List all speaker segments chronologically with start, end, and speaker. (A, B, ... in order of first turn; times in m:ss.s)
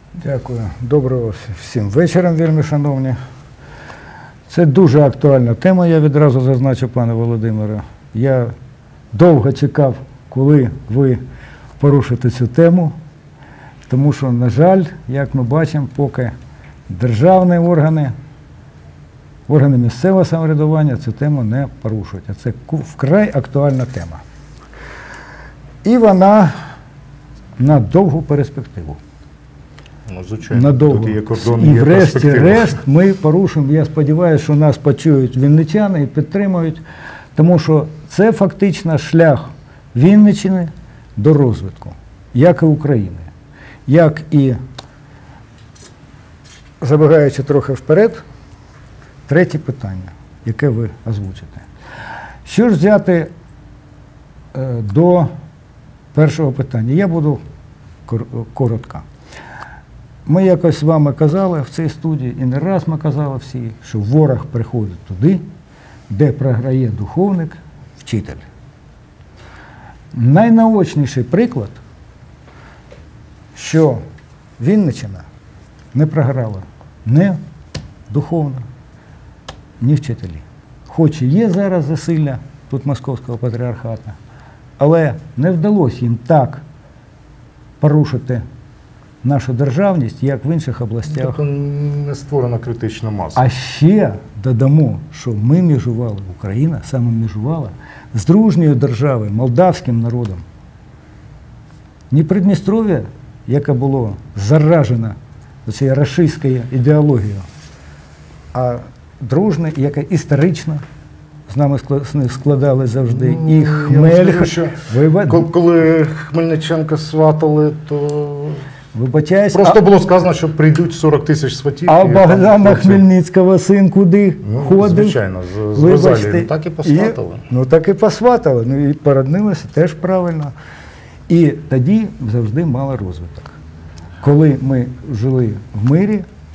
0:00.2-0:03.2 A
0:04.5-0:08.5 A
0:09.1-0:11.2 A
0:11.8-0:13.0 A
0:13.9-0:16.3 A
0:16.9-0:18.1 A
0:19.5-0:24.2 A
0:25.8-0:26.5 A
0:27.6-0:29.0 A
0:30.1-0:32.8 B
0:30.5-0:36.8 A
0:37.4-0:43.3 A
0:43.9-0:44.6 A
0:46.8-0:48.2 A
0:49.3-0:51.7 A
0:52.5-0:53.3 A
0:54.5-0:55.3 A
0:56.1-0:57.4 A
0:58.1-0:59.0 A
1:00.3-1:05.4 A
1:06.1-1:08.4 A
1:10.1-1:11.8 A
1:13.6-1:14.0 A
1:14.6-1:15.2 A
1:15.9-1:17.4 A
1:18.1-1:18.7 A
1:19.8-1:24.2 A
1:24.8-1:26.6 A
1:27.8-1:28.4 A
1:29.2-1:31.4 A
1:31.1-1:33.4 B
1:33.4-1:40.4 A
1:42.1-1:47.5 A
1:48.5-1:50.8 A
1:51.5-1:55.5 A
1:53.1-1:58.6 B
1:58.9-1:59.8 A
1:59.5-2:03.0 B
2:01.9-2:05.2 A
2:04.4-2:07.5 B
2:05.7-2:10.5 A
2:11.3-2:13.6 A
2:14.2-2:16.3 A